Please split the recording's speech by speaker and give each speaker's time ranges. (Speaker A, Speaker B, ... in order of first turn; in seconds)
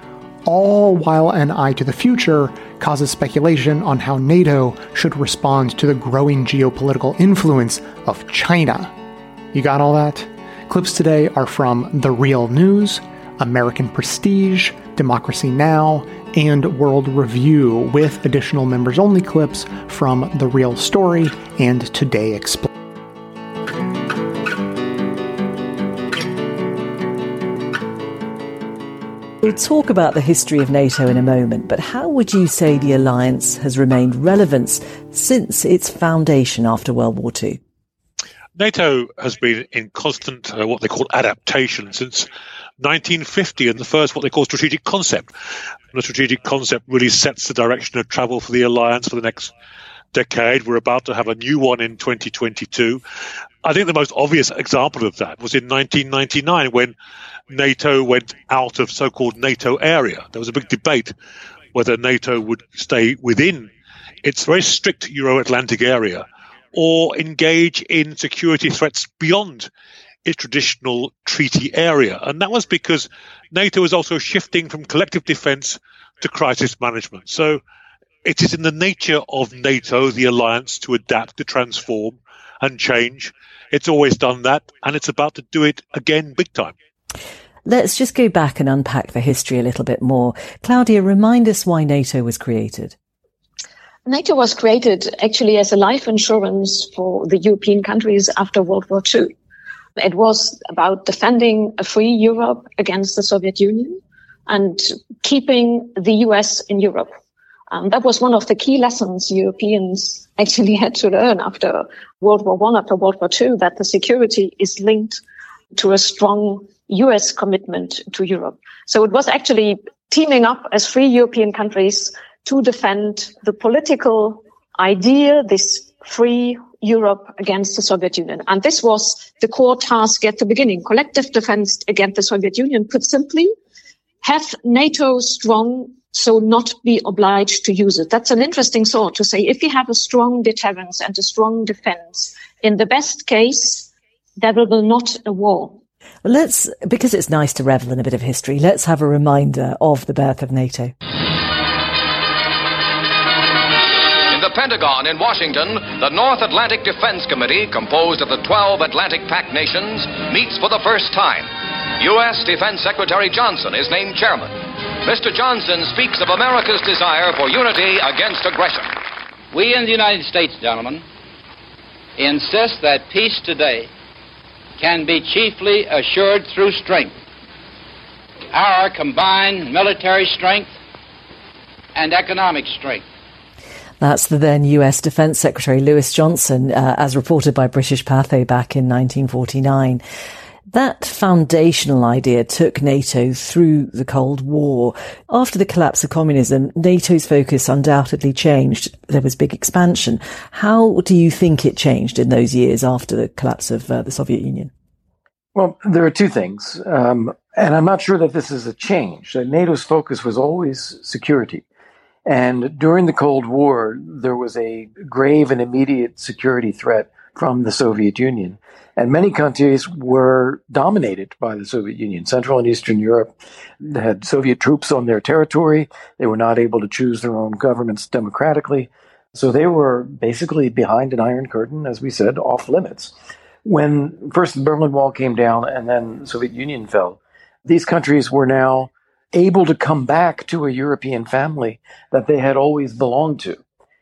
Speaker A: 0.4-8.9, 9.5-22.7
Speaker B: 29.4-37.6, 87.7-92.9, 146.2-150.9, 184.0-190.0, 190.7-204.7
Speaker C: 38.5-42.3, 42.8-45.3, 45.9-49.5, 50.1-53.0, 53.6-56.9, 57.5-61.1, 61.7-63.7, 64.2-69.7, 70.2-77.6, 78.2-86.7
Speaker D: 94.1-99.3, 100.0-107.1, 107.7-115.2, 115.7-133.5, 134.2-145.8
Speaker E: 154.3-169.0
Speaker F: 169.5-171.0, 172.2-173.9, 174.8-177.2, 178.5-180.7, 181.9-183.0
Speaker G: 205.5-211.6, 212.2-233.1, 233.6-243.6